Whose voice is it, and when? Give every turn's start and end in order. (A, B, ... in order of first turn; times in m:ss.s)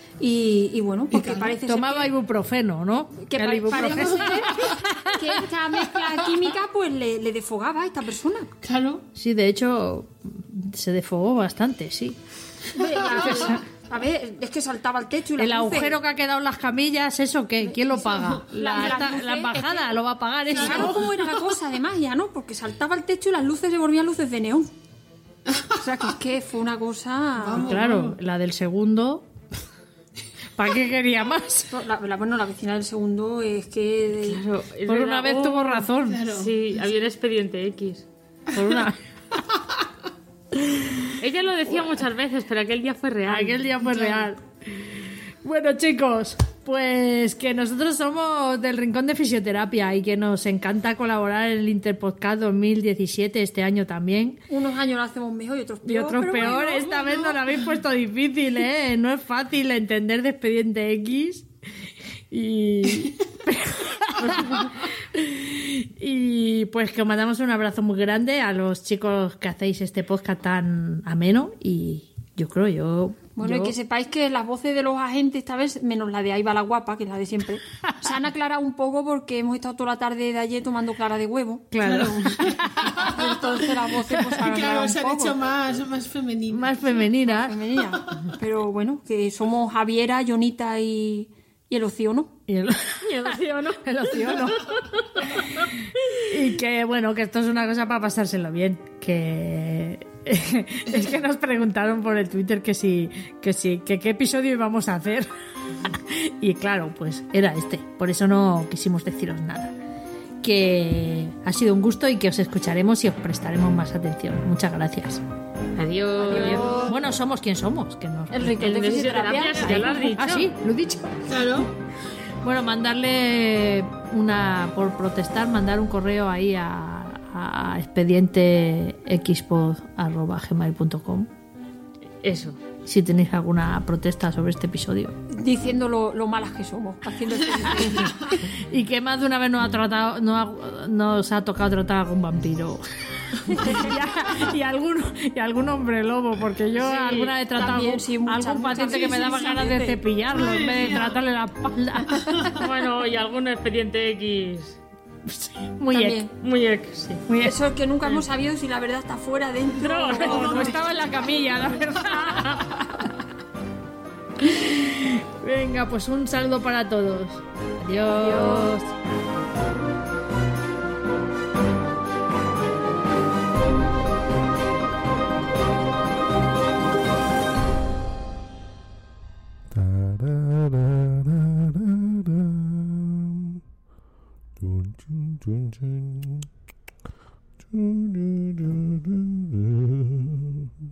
0:00.2-0:02.2 A
0:01.1-0:01.5 B
0:01.6-0:05.2 C
0:03.2-0:08.5 A
0:08.6-0:09.0 B
0:09.2-0:12.2 C
0:12.7-0:16.0 A
0:13.1-0:13.6 C
0:15.4-0:21.0 C
0:18.5-0:19.9 A
0:18.6-0:19.1 D
0:20.5-0:21.0 B
0:20.5-0:24.7 A
0:25.8-0:27.8 A
0:27.4-0:28.2 B
0:27.5-0:29.3 C
0:30.6-0:31.7 C
0:31.7-0:34.4 A
0:34.2-0:38.1 D
0:34.9-0:36.3 C
0:36.1-0:36.6 B
0:38.5-0:39.0 C
0:41.2-0:43.8 D
0:43.3-0:44.8 C
0:43.9-0:44.3 B
0:45.4-0:54.4 C
0:54.5-0:57.4 A
0:55.8-1:01.5 C
1:02.3-1:13.8 C
1:13.4-1:22.3 A
1:21.7-1:23.1 C
1:21.8-1:23.2 B
1:23.0-1:25.4 A
1:24.4-1:26.9 B
1:26.5-1:27.6 C
1:27.2-1:32.3 A
1:32.5-1:35.2 C
1:33.0-1:34.4 D
1:36.3-1:45.3 C
1:46.1-1:49.8 C
1:50.4-1:55.2 C
1:55.8-1:56.9 D
1:56.2-2:01.1 C
1:56.2-1:56.9 A
1:58.3-2:00.5 D
2:01.3-2:01.7 B
2:02.4-2:11.3 C
2:12.2-2:12.6 D
2:12.8-2:15.2 C
2:15.3-2:18.4 A
2:18.7-2:22.8 C
2:23.5-2:32.6 C
2:26.7-2:27.4 D
2:27.6-2:30.0 A
2:30.3-2:31.2 B
2:32.6-2:34.8 D
2:35.3-2:36.3 C
2:35.9-2:36.3 A
2:36.4-2:37.2 D
2:37.2-2:37.6 C
2:37.4-2:40.8 A
2:39.9-2:40.8 D
2:39.9-2:42.8 C
2:40.2-2:40.7 B
2:42.1-2:42.6 D
2:44.5-2:48.9 C
2:59.8-3:00.9 E
3:04.6-3:05.9 E
3:07.7-3:08.8 E